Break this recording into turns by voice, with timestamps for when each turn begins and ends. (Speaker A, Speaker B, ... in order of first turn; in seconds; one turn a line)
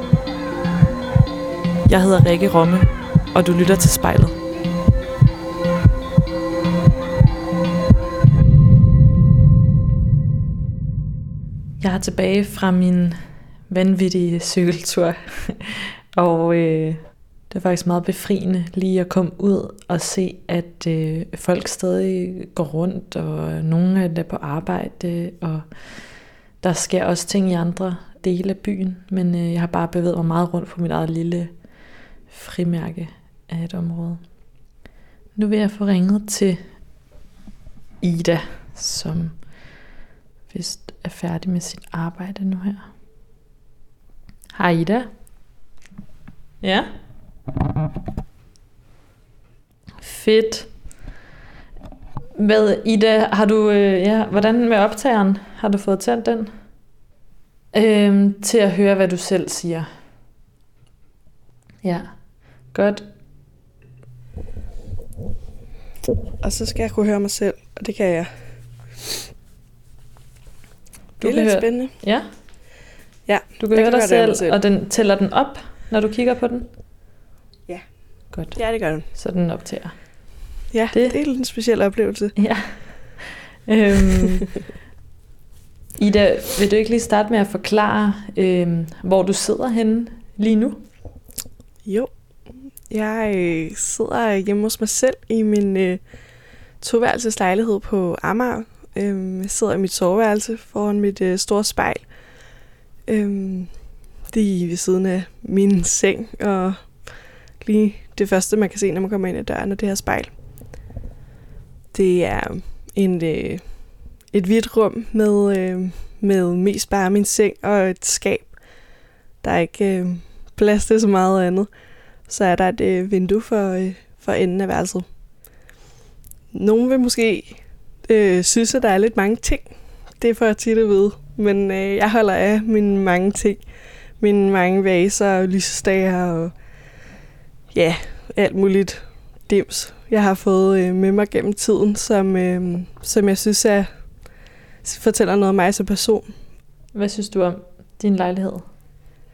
Speaker A: 1.9-4.3
Speaker A: 11.8-13.2
Speaker A: 13.7-25.7
Speaker A: 26.6-31.5
Speaker A: 32.3-34.2
Speaker A: 35.3-36.6
Speaker A: 38.0-39.7
Speaker A: 40.5-42.9
Speaker A: 44.5-45.1
Speaker A: 46.6-46.9
Speaker A: 50.0-50.7
Speaker A: 52.4-56.6
Speaker A: 57.7-59.9
Speaker A: 61.8-63.1
Speaker B: 66.4-68.3
Speaker A: 71.2-72.3
Speaker B: 71.2-71.9
Speaker B: 73.3-74.6
Speaker A: 73.6-76.7
Speaker A: 78.3-81.2
Speaker B: 78.5-79.1
Speaker B: 80.7-82.3
Speaker A: 82.4-84.5
Speaker A: 86.0-90.8
Speaker B: 91.8-92.1
Speaker B: 92.9-96.0
Speaker B: 96.8-102.1
Speaker B: 103.1-103.7
Speaker B: 104.3-107.1
Speaker B: 107.6-110.3
Speaker B: 111.9-113.6
Speaker B: 114.3-118.6
Speaker B: 119.4-121.7
Speaker B: 122.3-125.1
Speaker B: 126.5-133.6
Speaker B: 134.2-136.5
Speaker B: 137.7-143.9
Speaker B: 144.8-146.3
Speaker A: 146.9-148.7